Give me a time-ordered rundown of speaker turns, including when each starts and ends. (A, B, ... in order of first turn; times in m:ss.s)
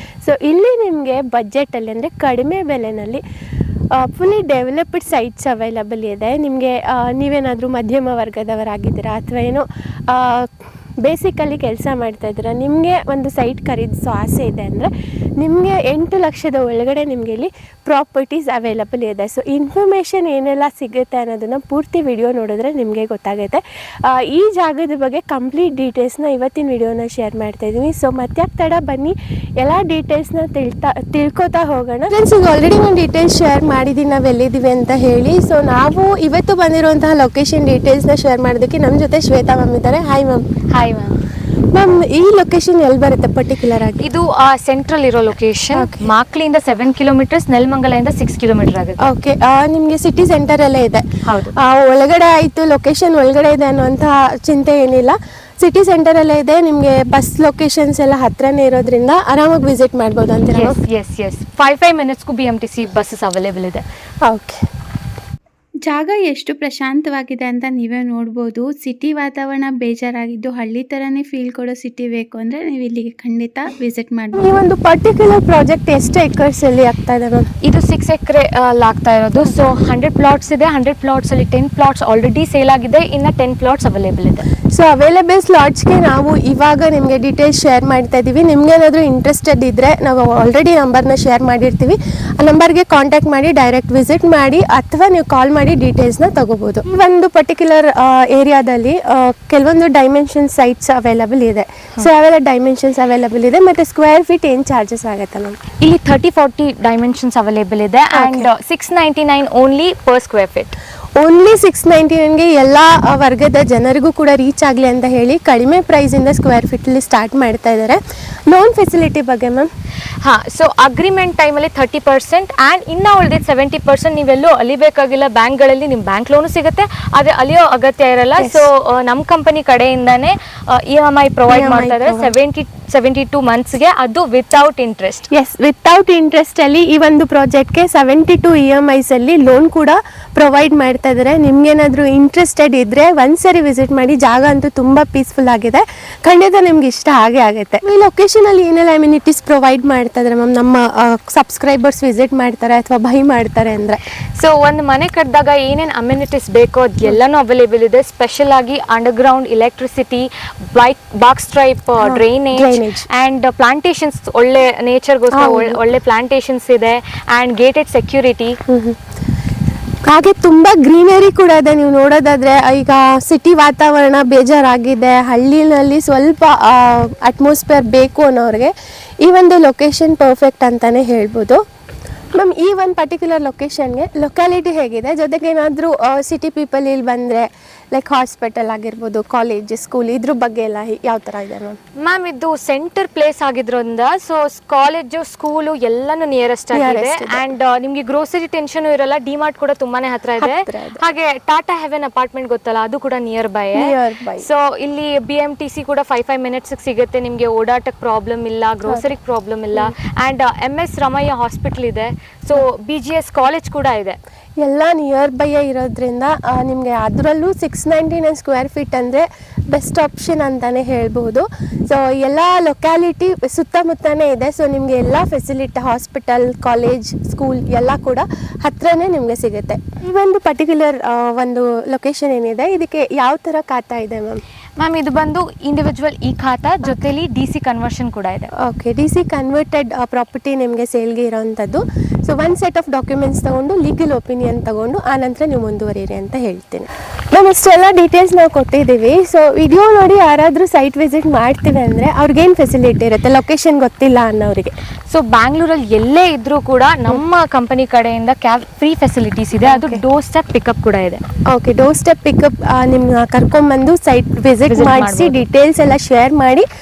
0:00.2-0:03.2 A
0:04.0-0:10.5 A
0:11.0-0:40.4 A
0:40.7-0:41.2 B
0:41.7-0:44.0 A
0:44.0-0:49.0 B
0:45.7-0:46.1 A
0:49.0-1:00.8 A
0:51.2-0:51.5 B
1:00.5-1:03.8 B
1:04.2-1:04.6 A
1:05.8-1:14.4 C
1:14.3-1:17.5 A
1:17.6-1:24.4 B
1:24.7-1:45.6 A
1:45.8-1:50.8 B
1:48.1-1:48.5 A
1:51.2-1:59.7 A
2:00.2-2:15.3 B
2:08.4-2:08.6 A
2:11.5-2:12.3 A
2:15.3-2:34.0 A
2:34.4-2:48.6 B
2:42.0-2:43.0 A
2:45.3-2:45.8 A
2:48.7-2:49.0 A
2:50.0-3:01.6 A
3:02.3-3:11.8 A
3:12.0-3:34.2 B
3:16.7-3:17.5 A
3:20.4-3:21.0 A
3:23.7-3:24.5 A
3:34.6-3:54.4 A
3:54.8-3:58.5 B
3:58.5-4:14.7 A
4:15.1-4:21.2 B
4:19.6-4:20.0 A
4:21.5-4:26.6 A
4:24.6-4:25.4 B